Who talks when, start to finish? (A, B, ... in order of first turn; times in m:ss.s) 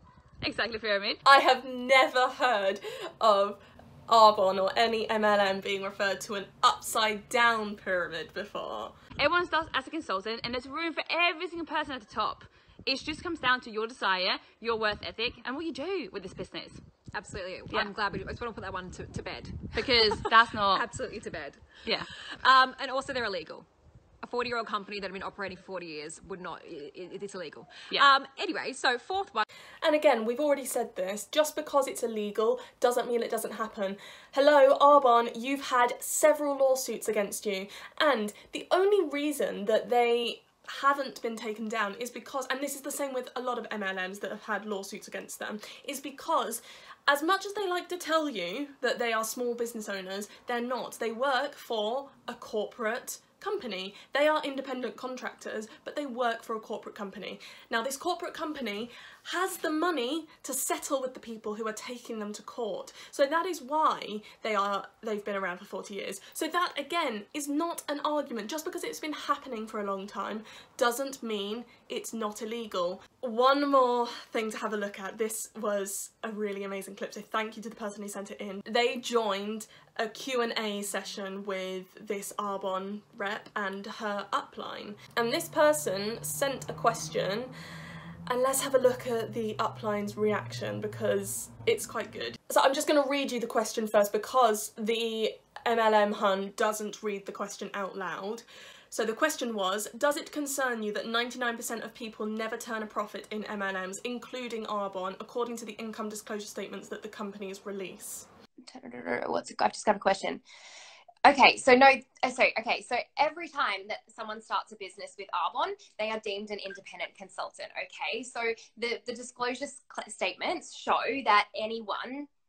0:00.4-0:01.2 A
0:01.2-0:08.9 B
0:09.2-0:16.8 A
0:17.1-0:19.8 C
0:17.7-0:17.9 A
0:19.7-0:20.9 A
0:20.8-0:21.7 C
0:21.8-0:22.1 A
0:22.4-0:23.7 C
0:24.2-0:29.4 C
0:29.8-1:27.5 B
1:28.3-1:48.3 B
1:48.7-1:50.4 D
1:51.2-2:02.3 D